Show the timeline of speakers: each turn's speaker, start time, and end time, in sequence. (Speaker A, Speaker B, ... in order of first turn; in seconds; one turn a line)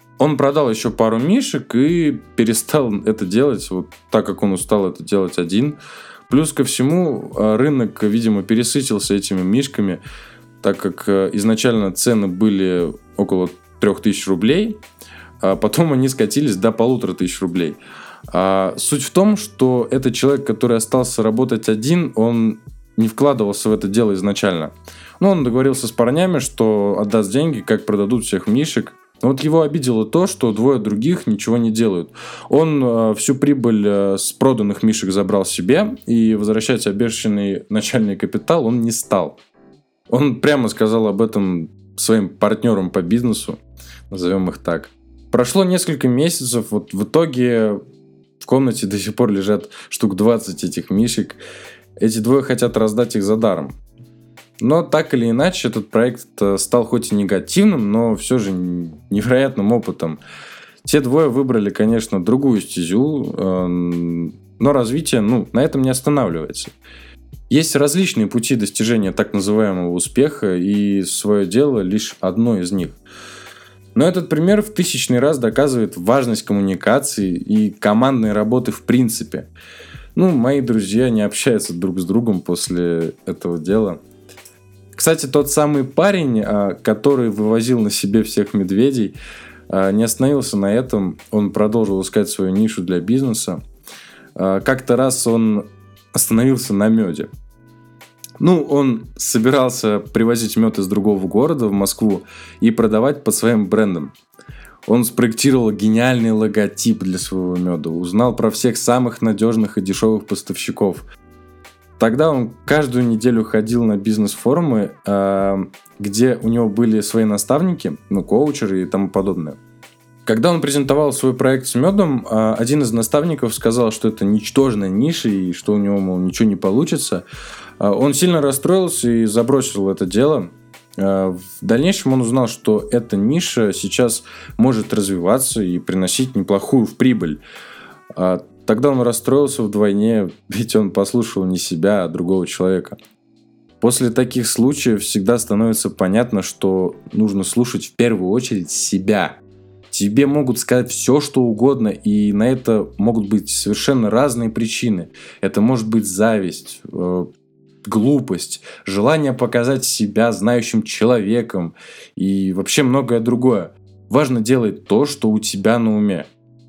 Speaker A: 0.2-5.8
Speaker A: 6.3-10.0
Speaker A: 10.6-14.8
Speaker A: 15.4-17.8
Speaker A: 18.3-39.4
Speaker A: 40.1-47.8
Speaker A: 48.4-51.4
Speaker A: 52.0-53.8
Speaker A: 54.6-60.2
Speaker A: 60.8-66.7
Speaker A: 67.5-73.0
Speaker A: 74.0-79.5
Speaker A: 80.2-84.0
Speaker A: 85.0-89.2
Speaker A: 89.7-93.6
Speaker A: 94.4-97.3
Speaker A: 98.4-104.1
Speaker A: 104.9-111.0
Speaker A: 112.0-119.6
Speaker A: 120.3-127.2
Speaker A: 127.8-137.4
Speaker A: 138.2-143.0
Speaker A: 143.8-157.3
Speaker A: 157.8-166.3